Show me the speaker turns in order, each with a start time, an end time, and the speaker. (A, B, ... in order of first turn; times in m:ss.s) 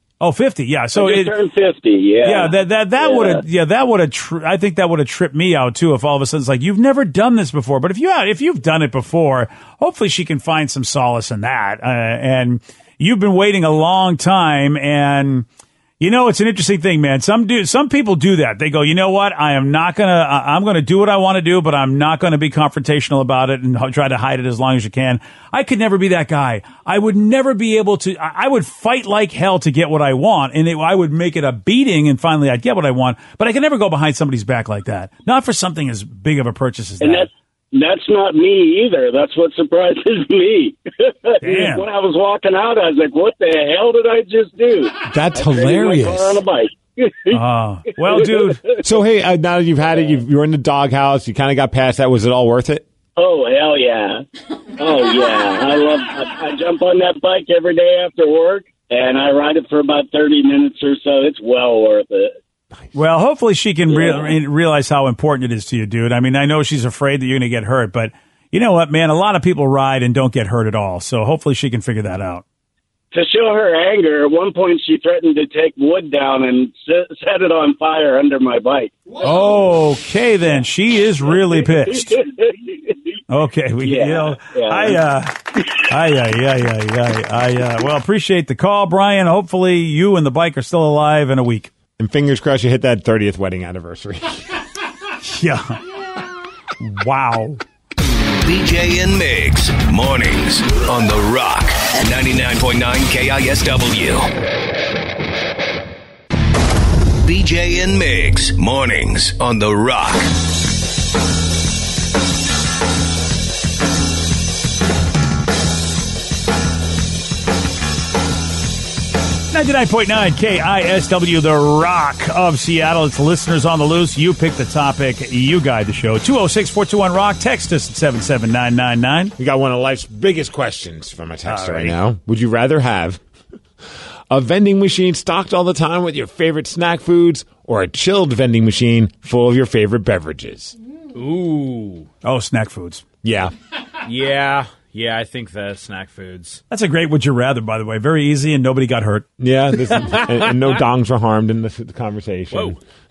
0:00.2-0:01.4 A
0:01.0-0:03.4 B
0:02.2-0:15.5 A
0:16.0-0:37.3 A
0:37.0-0:47.4 B
0:41.4-0:41.8 A
0:45.0-0:46.4 C
0:47.3-0:48.6 A
0:48.1-0:48.8 B
0:48.8-0:52.8 C
0:53.2-1:02.4 B
1:02.9-1:12.4 A
1:03.9-1:04.4 B
1:13.1-1:19.1 B
1:19.2-1:22.2 A
1:21.5-1:22.5 B
1:23.3-1:31.7 A
1:23.8-1:25.0 B
1:32.0-1:34.5 C
1:35.2-1:35.8 A
1:36.8-1:37.6 A
1:38.4-1:44.3 D
1:47.2-1:50.2 D
1:59.5-2:09.3 A
2:09.4-2:13.2 C
2:11.5-2:12.0 A
2:14.3-2:20.8 C
2:21.1-2:22.1 E
2:22.2-2:23.0 A
2:23.2-2:23.5 C
2:24.0-2:26.6 E
2:26.7-2:29.3 A
2:29.4-2:32.8 C